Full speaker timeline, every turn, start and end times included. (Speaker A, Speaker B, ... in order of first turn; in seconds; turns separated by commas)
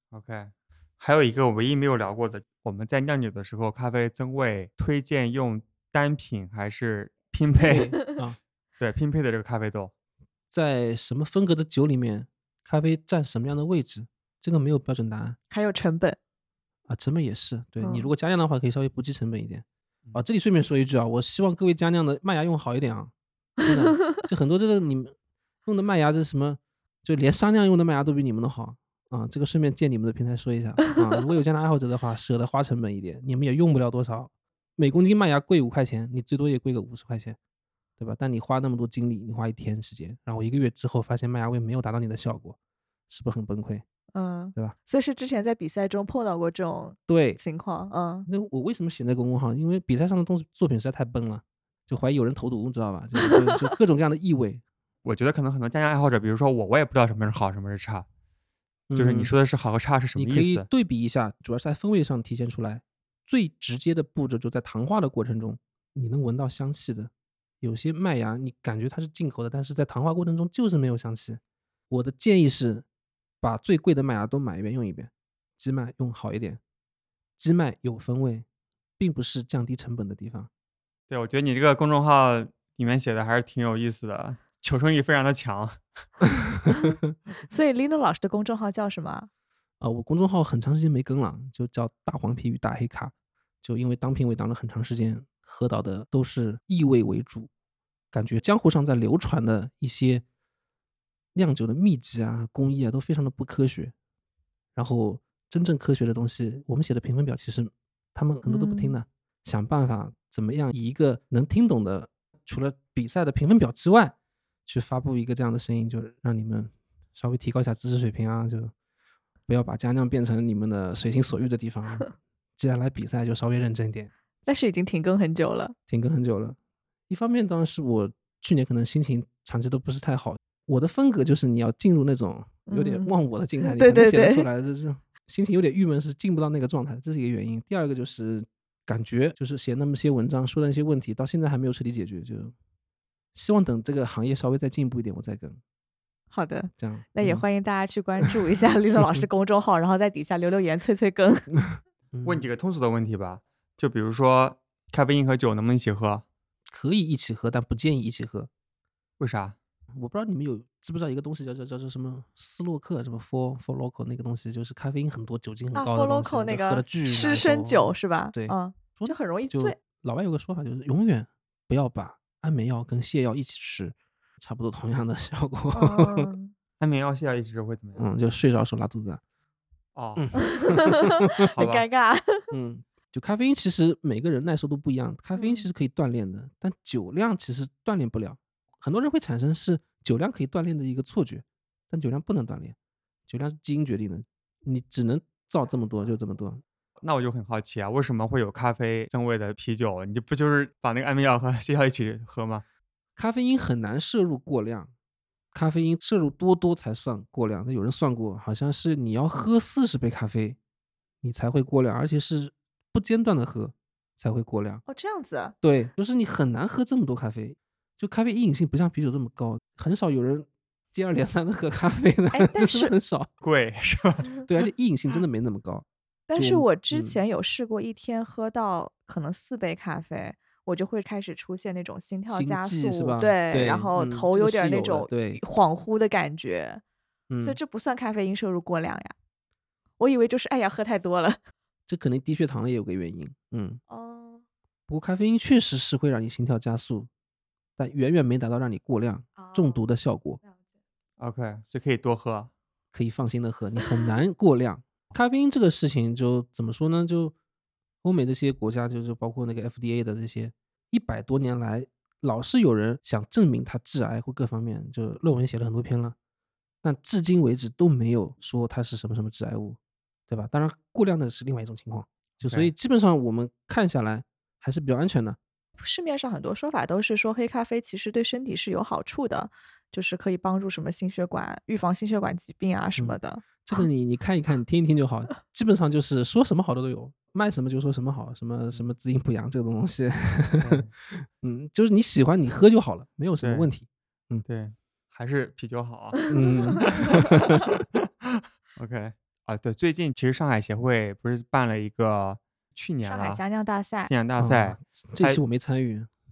Speaker A: 0.1-8.0, Speaker B: 7.6-8.4, Speaker A: 8.8-9.9, Speaker B: 10.5-15.4, Speaker C: 15.5-16.2, Speaker B: 16.9-23.1, Speaker C: 17.8-18.1, Speaker B: 23.6-25.1, Speaker B: 25.7-37.4, Speaker B: 38.0-42.6, Speaker B: 43.1-43.8, Speaker C: 44.1-48.3, Speaker B: 47.1-47.4, Speaker B: 48.3-54.6, Speaker A: 55.0-58.1, Speaker B: 58.9-59.3, Speaker A: 59.0-60.7, Speaker B: 60.2-67.1, Speaker B: 67.6-72.9, Speaker B: 73.4-76.6, Speaker B: 77.4-78.5, Speaker B: 79.0-80.5, Speaker A: 81.1-85.8, Speaker C: 86.7-86.9, Speaker C: 87.5-89.3, Speaker B: 89.8-97.5, Speaker B: 98.1-100.2, Speaker B: 101.3-103.9, Speaker B: 104.8-114.1, Speaker C: 108.5-109.0, Speaker B: 114.7-118.7, Speaker B: 119.5-124.1, Speaker C: 124.5-125.8, Speaker B: 125.9-126.6, Speaker B: 127.1-142.5, Speaker C: 132.7-133.1, Speaker C: 133.6-134.5, Speaker B: 143.3-145.6, Speaker C: 146.3-151.5, Speaker B: 146.8-147.4, Speaker B: 151.7-152.5, Speaker A: 152.2-156.2, Speaker B: 156.7-158.5, Speaker A: 159.2-159.6, Speaker B: 159.9-176.3, Speaker C: 165.7-169.8, Speaker C: 175.7-176.5, Speaker A: 176.8-178.1, Speaker B: 178.0-179.2, Speaker A: 180.0-180.2, Speaker B: 180.2-181.5, Speaker C: 180.4-182.5, Speaker A: 181.4-181.9, Speaker B: 182.5-192.8, Speaker C: 185.4-185.7, Speaker B: 193.3-196.6, Speaker A: 197.0-202.7, Speaker B: 203.2-204.9, Speaker B: 205.5-210.6, Speaker B: 211.2-214.8, Speaker C: 214.9-215.6, Speaker B: 215.6-223.3, Speaker C: 222.3-222.9, Speaker A: 223.4-224.3, Speaker B: 224.5-227.2, Speaker C: 226.3-236.8, Speaker B: 232.3-235.4, Speaker B: 237.3-237.6, Speaker C: 237.4-239.1, Speaker C: 240.0-241.4, Speaker B: 241.9-243.8, Speaker C: 243.9-244.4, Speaker B: 244.9-247.1, Speaker B: 247.8-250.4, Speaker C: 249.4-249.8, Speaker A: 251.2-252.5, Speaker B: 252.9-257.4, Speaker B: 258.0-266.2, Speaker B: 266.8-269.8, Speaker B: 270.3-275.4, Speaker A: 272.4-272.7, Speaker C: 275.8-283.9, Speaker B: 283.0-294.4, Speaker A: 290.6-290.9, Speaker A: 293.4-293.7, Speaker A: 294.5-303.4, Speaker B: 296.3-297.8, Speaker C: 303.0-304.1, Speaker A: 304.1-305.4, Speaker B: 304.4-306.1